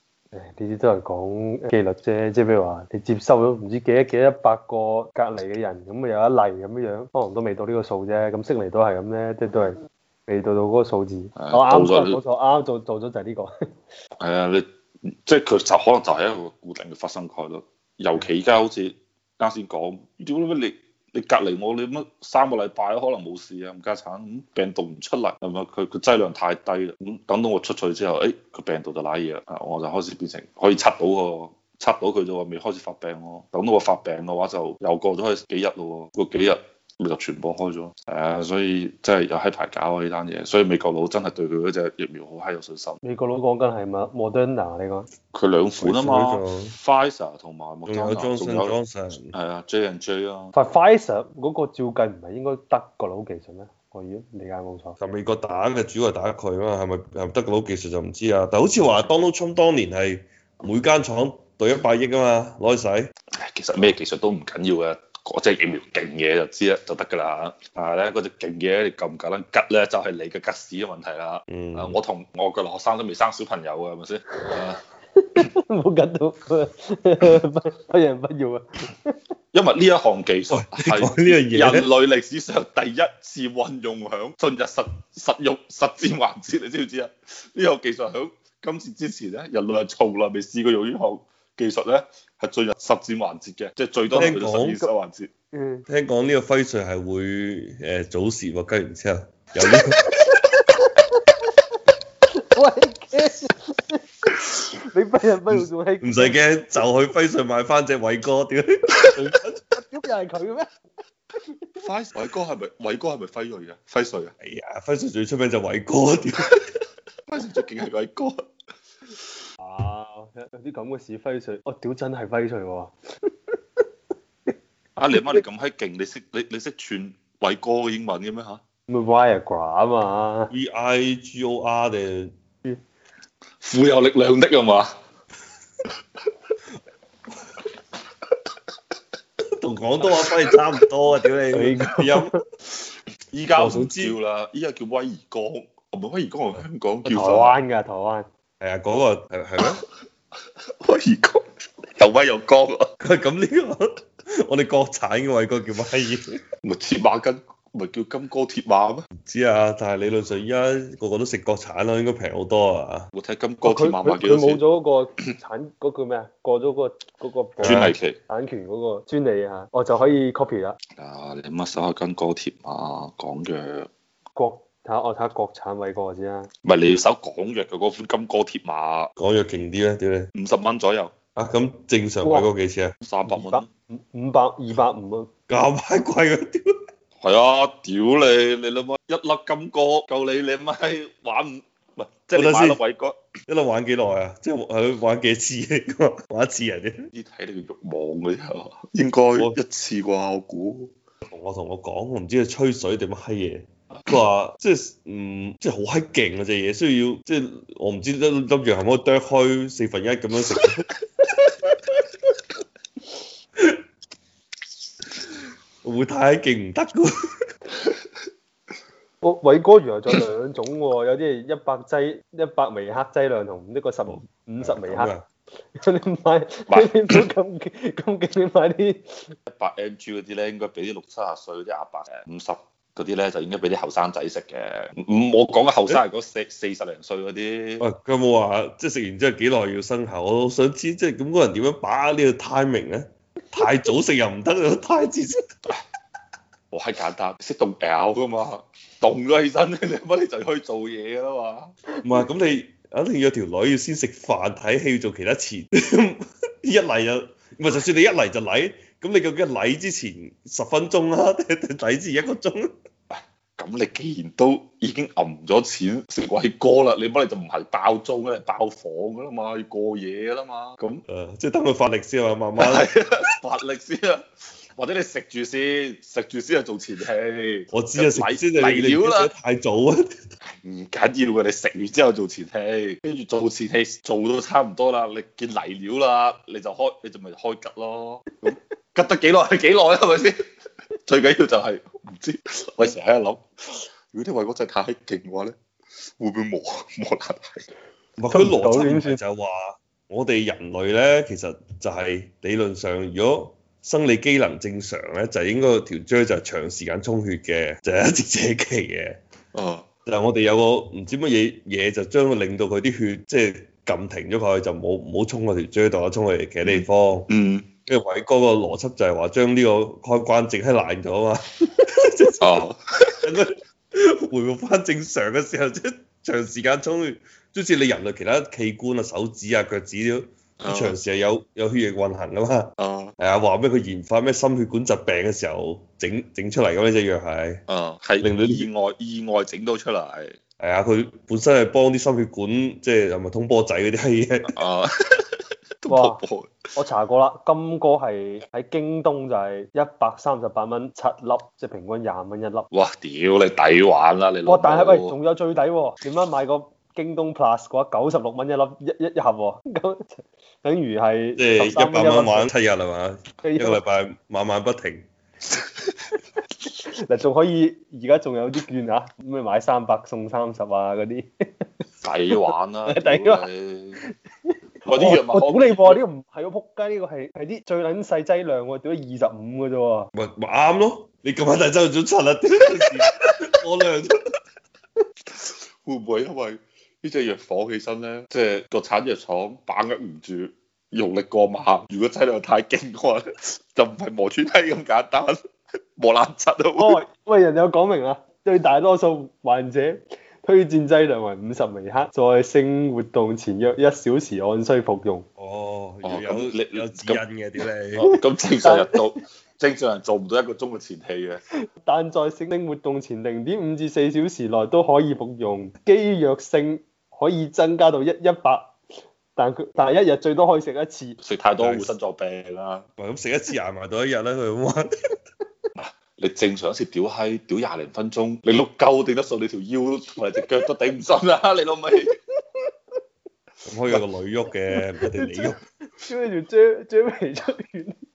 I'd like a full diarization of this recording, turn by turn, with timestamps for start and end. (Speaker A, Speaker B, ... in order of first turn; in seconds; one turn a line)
Speaker A: 0.3-13.5
Speaker B: 11.4-12.2
Speaker B: 14.2-43.0
Speaker A: 43.0-45.1
Speaker B: 45.3-48.8
Speaker C: 45.8-46.8
Speaker C: 47.9-49.3
Speaker B: 49.3-50.5
Speaker A: 50.5-55.0
Speaker C: 55.0-63.1
Speaker B: 63.3-74.8
Speaker C: 71.5-72.0
Speaker A: 75.2-79.2
Speaker B: 79.5-95.3
Speaker C: 80.5-81.9
Speaker C: 94.1-94.8
Speaker A: 95.5-95.8
Speaker C: 95.9-100.0
Speaker A: 102.4-106.4
Speaker C: 106.0-109.6
Speaker A: 109.2-110.7
Speaker B: 111.8-114.3
Speaker C: 114.4-116.6
Speaker B: 117.3-118.4
Speaker A: 119.6-123.8
Speaker B: 125.0-128.6
Speaker A: 125.1-125.4
Speaker A: 128.9-130.5
Speaker C: 130.5-132.3
Speaker B: 133.6-134.9
Speaker C: 139.6-142.3
Speaker A: 141.5-142.4
Speaker B: 143.3-147.6
Speaker C: 143.6-144.1
Speaker A: 147.1-148.2
Speaker C: 148.6-149.8
Speaker B: 150.8-152.9
Speaker C: 153.0-153.8
Speaker C: 154.3-156.4
Speaker B: 156.6-159.1
Speaker C: 159.2-163.1
Speaker B: 163.1-164.6
Speaker A: 163.6-170.8
Speaker B: 167.6-168.2
Speaker C: 167.6-167.9
Speaker B: 171.0-173.9
Speaker A: 174.4-176.5
Speaker B: 176.6-179.1
Speaker C: 179.2-180.3
Speaker B: 180.3-181.1
Speaker C: 181.3-182.9
Speaker A: 182.2-182.5
Speaker B: 183.0-183.7
Speaker A: 183.2-185.3
Speaker C: 185.5-186.7
Speaker B: 187.2-193.2
Speaker C: 192.3-192.8
Speaker C: 193.5-197.1
Speaker B: 197.1-200.9
Speaker C: 201.3-210.9
Speaker C: 215.8-217.3
Speaker A: 219.2-225.1
Speaker C: 224.1-225.2
Speaker A: 225.8-229.3
Speaker B: 226.7-227.2
Speaker B: 229.5-237.8
Speaker C: 237.8-245.4
Speaker B: 246.7-251.7
Speaker C: 252.0-262.7
Speaker B: 263.1-271.0
Speaker C: 271.1-272.9
Speaker B: 272.6-274.2
Speaker B: 274.8-279.3
Speaker C: 277.7-280.1
Speaker B: 280.6-290.4
Speaker B: 291.1-295.6
Speaker B: 296.2-297.7
Speaker C: 298.2-309.2
Speaker A: 298.3-299.2
Speaker B: 309.6-309.8
Speaker C: 310.1-317.3
Speaker B: 316.6-317.7
Speaker C: 317.9-322.6
Speaker B: 322.4-323.2
Speaker C: 323.2-337.6
Speaker B: 330.6-331.0
Speaker B: 332.8-333.1
Speaker B: 337.7-340.4
Speaker C: 338.2-338.7
Speaker C: 340.6-344.5
Speaker B: 344.5-346.5
Speaker A: 345.9-346.2
Speaker A: 346.8-352.7
Speaker B: 352.7-355.1
Speaker A: 354.4-362.5
Speaker C: 361.4-365.1
Speaker A: 363.4-363.8
Speaker A: 366.8-371.7
Speaker B: 372.0-374.0
Speaker A: 372.3-373.5
Speaker A: 374.0-380.1
Speaker B: 374.9-376.0
Speaker C: 380.1-384.2
Speaker B: 385.3-395.4
Speaker B: 396.0-397.0
Speaker A: 396.8-405.2
Speaker C: 405.4-408.1
Speaker B: 406.0-407.2
Speaker B: 408.0-411.4
Speaker A: 408.6-409.1
Speaker A: 411.7-418.7
Speaker A: 419.4-421.2
Speaker B: 421.2-422.8
Speaker C: 421.6-421.9
Speaker C: 423.0-424.9
Speaker B: 425.8-432.1
Speaker C: 433.7-435.6
Speaker A: 434.8-437.9